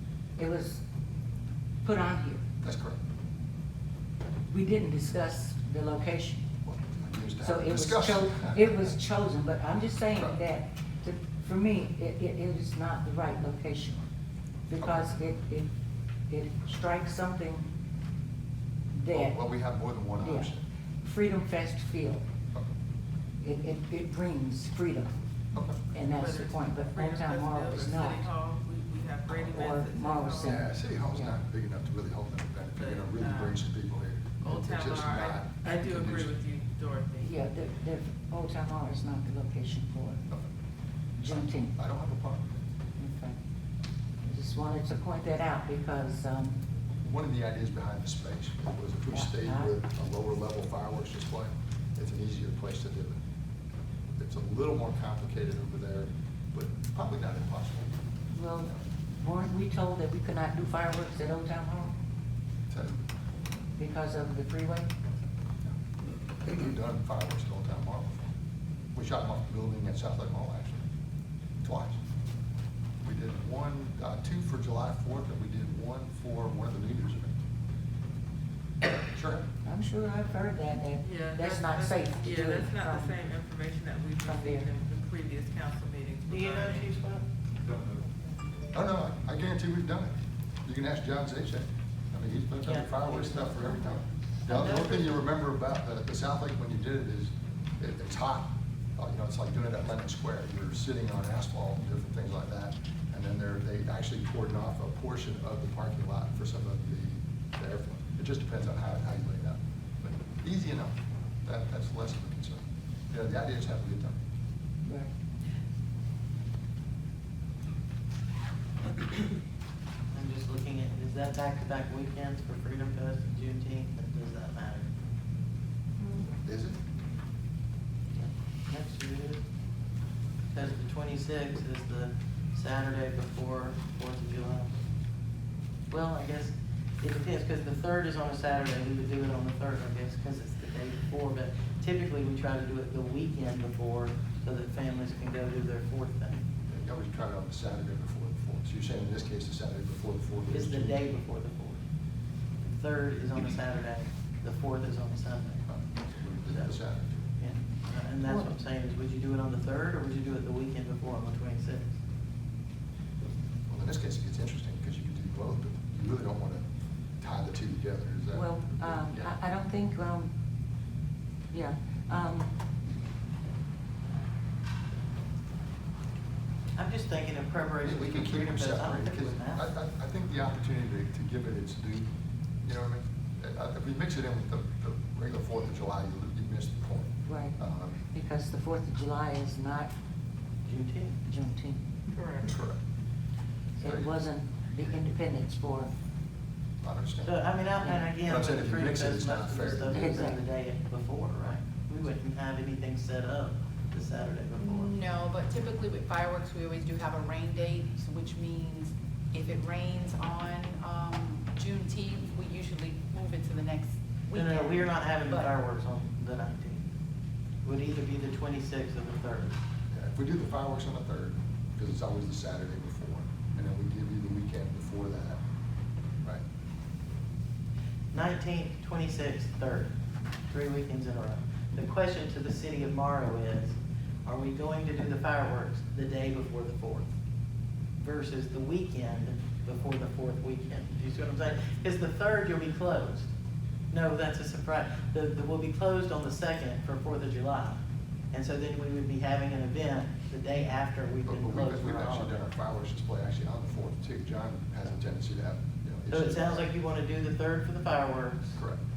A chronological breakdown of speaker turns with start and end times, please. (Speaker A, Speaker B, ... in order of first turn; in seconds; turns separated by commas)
Speaker A: 0.4-0.8, Speaker A: 1.8-2.5, Speaker B: 2.6-3.0, Speaker A: 4.5-6.5, Speaker B: 6.7-9.0, Speaker A: 7.4-14.0, Speaker A: 14.7-15.7, Speaker B: 14.8-15.1, Speaker A: 16.3-17.7, Speaker A: 18.9-19.4, Speaker B: 19.1-20.6, Speaker A: 20.2-20.5, Speaker A: 21.0-22.2, Speaker A: 23.4-25.1, Speaker B: 25.5-25.8, Speaker A: 25.9-28.3, Speaker C: 26.2-30.5, Speaker A: 29.4-31.4, Speaker B: 30.4-36.3, Speaker C: 32.8-33.7, Speaker C: 34.4-37.3, Speaker A: 37.2-40.2, Speaker A: 41.2-41.7, Speaker B: 41.3-42.6, Speaker A: 43.0-43.4, Speaker A: 44.2-46.6, Speaker B: 47.0-53.2, Speaker A: 49.1-49.7, Speaker B: 54.2-58.0, Speaker A: 58.3-62.0, Speaker B: 62.7-63.0, Speaker A: 63.8-64.9, Speaker B: 66.4-68.3, Speaker B: 69.0-70.8, Speaker B: 71.6-72.0, Speaker B: 73.0-77.3, Speaker B: 78.9-79.5, Speaker A: 79.7-83.1, Speaker C: 81.0-86.9, Speaker A: 84.2-84.7, Speaker D: 86.3-87.2, Speaker B: 88.7-114.2, Speaker D: 92.6-93.5, Speaker D: 94.5-95.0, Speaker A: 114.8-115.1, Speaker D: 120.1-124.9, Speaker B: 126.4-126.8, Speaker D: 128.7-129.4, Speaker D: 130.5-134.7, Speaker D: 135.9-146.5, Speaker B: 146.7-151.0, Speaker D: 150.5-151.8, Speaker D: 152.6-156.8, Speaker B: 155.7-157.2, Speaker D: 157.4-161.9, Speaker B: 163.7-166.6, Speaker B: 167.2-169.3, Speaker A: 168.3-170.3, Speaker A: 171.5-172.5, Speaker D: 176.8-179.6, Speaker B: 177.8-182.1, Speaker B: 182.6-188.1, Speaker A: 187.3-187.6, Speaker A: 188.1-189.9, Speaker D: 190.7-191.2, Speaker A: 191.2-191.8, Speaker C: 192.1-192.5, Speaker B: 192.4-192.8, Speaker A: 193.8-195.9, Speaker B: 193.8-194.1, Speaker B: 196.8-197.5, Speaker D: 197.2-205.0, Speaker A: 197.8-198.1, Speaker B: 198.2-200.3, Speaker A: 199.9-200.4, Speaker E: 204.6-215.5, Speaker D: 214.3-216.9, Speaker D: 217.6-219.6, Speaker B: 219.9-225.4, Speaker D: 228.1-229.9, Speaker D: 230.5-237.1, Speaker D: 238.0-243.3, Speaker D: 243.9-247.8, Speaker D: 248.3-252.4, Speaker B: 251.3-256.6, Speaker D: 256.1-258.6